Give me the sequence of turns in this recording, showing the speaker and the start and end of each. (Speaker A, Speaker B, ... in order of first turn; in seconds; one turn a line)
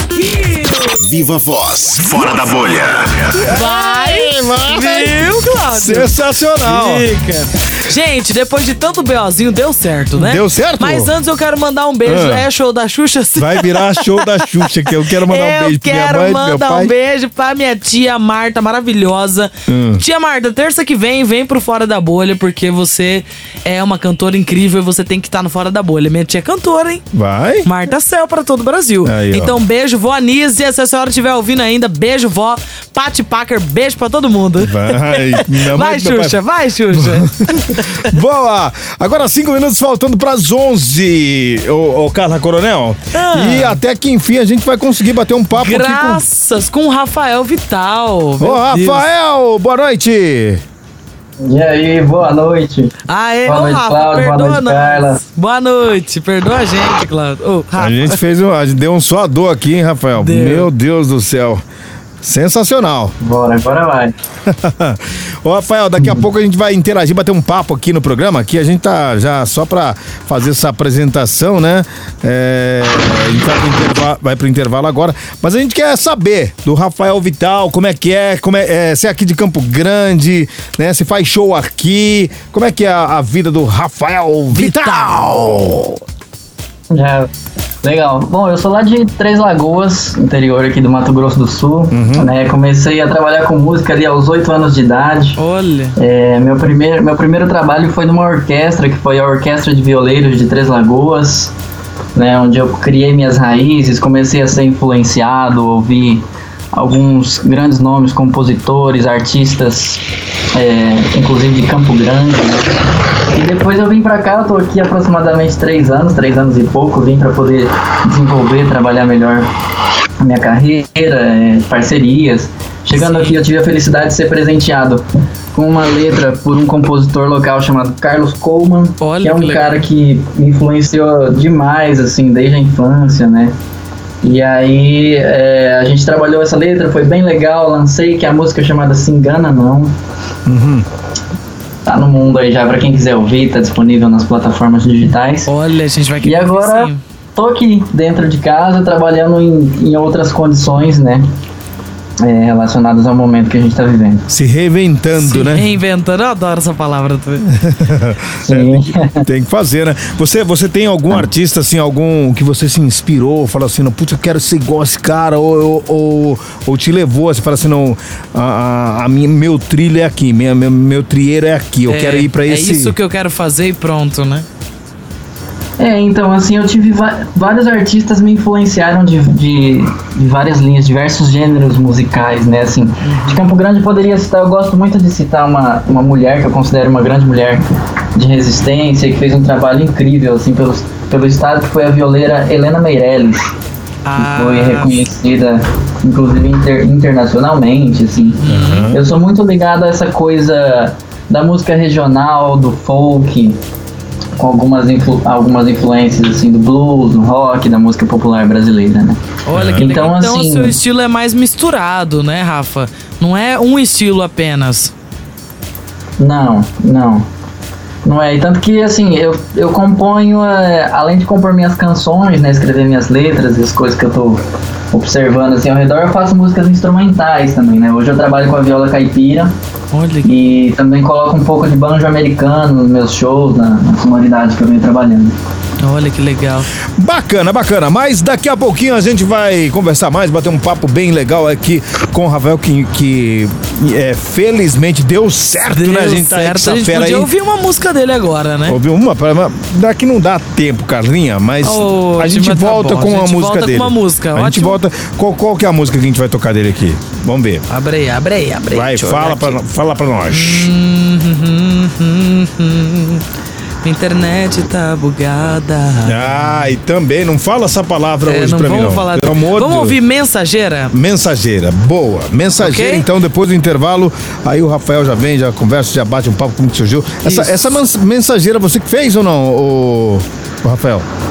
Speaker A: 0.1-0.9
Speaker B: 1.0-3.4
Speaker C: 3.3-7.0
Speaker A: 3.5-27.1
Speaker C: 10.2-11.1
Speaker C: 12.1-12.5
Speaker C: 13.4-16.9
Speaker C: 19.7-20.0
Speaker C: 27.1-27.7
Speaker A: 27.6-38.1
Speaker C: 29.0-29.6
Speaker C: 34.6-36.4
Speaker C: 36.9-46.2
Speaker A: 43.1-43.8
Speaker A: 45.5-49.1
Speaker C: 48.4-50.6
Speaker D: 51.4-55.2
Speaker A: 53.1-58.2
Speaker C: 57.8-61.6
Speaker A: 60.2-60.7
Speaker C: 62.2-63.1
Speaker D: 63.2-64.1
Speaker C: 64.5-86.0
Speaker A: 84.5-85.3
Speaker D: 86.9-87.3
Speaker D: 87.8-95.4
Speaker C: 91.9-92.3
Speaker A: 95.4-96.0
Speaker D: 96.0-101.5
Speaker D: 102.2-106.2
Speaker D: 106.7-119.5
Speaker D: 120.2-133.5
Speaker A: 122.9-123.4
Speaker A: 129.0-129.7
Speaker D: 134.2-139.9
Speaker C: 140.5-140.9
Speaker D: 141.9-145.5
Speaker A: 145.5-147.0
Speaker D: 146.2-151.2
Speaker D: 152.2-154.2
Speaker C: 154.3-155.7
Speaker A: 155.2-157.5
Speaker C: 157.5-172.9
Speaker D: 158.4-159.3
Speaker A: 171.9-174.5
Speaker D: 175.8-187.6
Speaker A: 183.0-183.4
Speaker D: 188.2-193.5
Speaker A: 194.1-195.1
Speaker D: 194.2-198.4
Speaker A: 198.2-198.9
Speaker C: 198.5-199.0
Speaker D: 198.9-203.6
Speaker D: 204.4-209.2
Speaker A: 209.5-214.9
Speaker C: 209.5-209.9
Speaker D: 209.8-210.8
Speaker D: 216.2-217.3
Speaker D: 218.0-229.5
Speaker A: 229.9-230.3
Speaker D: 230.2-235.3
Speaker A: 235.8-236.7
Speaker C: 237.0-247.3
Speaker A: 245.7-248.8
Speaker C: 248.7-257.6
Speaker A: 251.6-254.8
Speaker A: 257.7-259.6
Speaker C: 258.7-260.7
Speaker A: 260.3-263.2
Speaker A: 263.8-266.4
Speaker C: 266.0-270.0
Speaker A: 268.2-270.9
Speaker C: 270.9-281.1
Speaker A: 272.6-273.1
Speaker A: 277.2-277.7